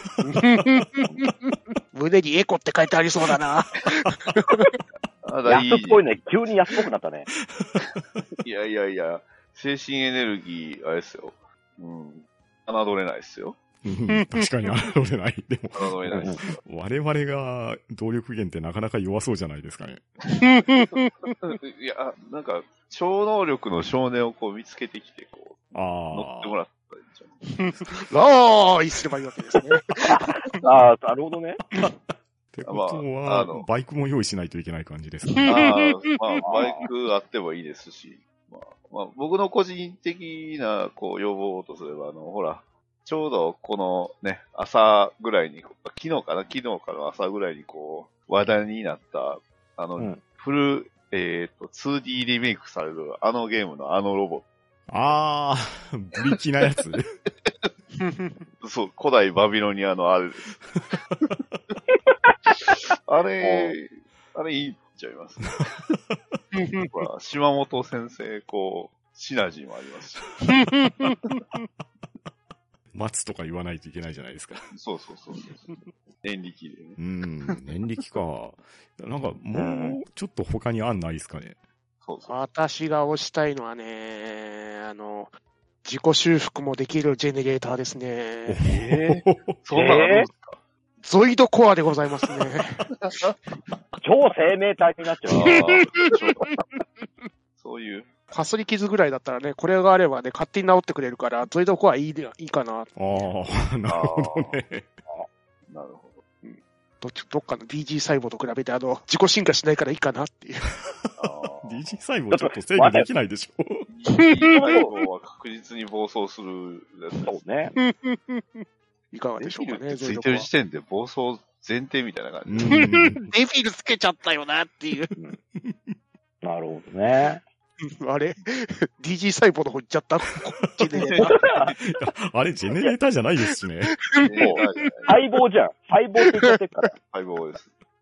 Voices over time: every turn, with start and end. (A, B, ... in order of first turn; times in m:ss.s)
0:00.2-0:04.8 A
0:05.2-0:06.0 B
0:05.4-0:07.3 C
0:08.4-0:13.6 B
0:13.8-0:20.0 D
0:14.1-0:14.7 A
0:15.7-0:16.6 B
0:16.1-0:16.4 C
0:20.3-0:21.3 A
0:21.4-0:27.3 B
0:25.7-0:26.5 D
0:27.6-0:30.6 A
0:30.0-0:31.6 C
0:32.5-0:35.7 D
0:32.7-0:33.7 B
0:35.3-0:36.6 A
0:35.4-0:54.5 B
0:36.4-0:36.8 C
0:54.9-0:57.1 D
0:58.0-0:58.4 A
0:58.6-1:00.6 B
1:02.9-1:06.0 B
1:03.4-1:03.7 C
1:06.6-1:06.9 A
1:06.9-1:10.5 B
1:10.6-1:11.2 A
1:12.9-1:14.7 D
1:14.7-1:17.6 B
1:17.0-1:21.6 D
1:19.5-1:20.0 C
1:22.0-1:22.3 B
1:22.3-1:25.3 A
1:25.8-1:28.6 A
1:28.5-1:29.5 D
1:28.6-1:30.6 B
1:29.7-1:30.3 C
1:31.0-1:32.8 A
1:33.0-1:33.4 B
1:34.0-1:35.6 C
1:35.3-1:36.6 B
1:35.4-1:36.6 A
1:37.6-1:38.1 B
1:38.3-1:43.0 A
1:43.0-1:44.9 D
1:43.9-1:44.6 B
1:45.7-1:46.2 B
1:46.4-1:50.8 A
1:51.2-1:51.8 B
1:51.6-1:53.9 D
1:52.3-1:53.1 C
1:53.9-1:57.4 B
1:54.1-1:54.9 A
1:54.5-1:54.9 C
1:57.2-1:57.7 C
1:57.8-2:00.5 A
1:59.4-2:02.9 B
2:02.5-2:03.3 D
2:02.6-2:05.1 A
2:05.6-2:05.9 D
2:06.4-2:07.4 C
2:08.0-2:11.4 A
2:10.9-2:11.8 B
2:11.2-2:11.7 C
2:11.8-2:14.0 D
2:14.1-2:14.9 A
2:14.2-2:15.1 B
2:14.4-2:16.9 C
2:16.2-2:16.5 A
2:17.1-2:17.7 B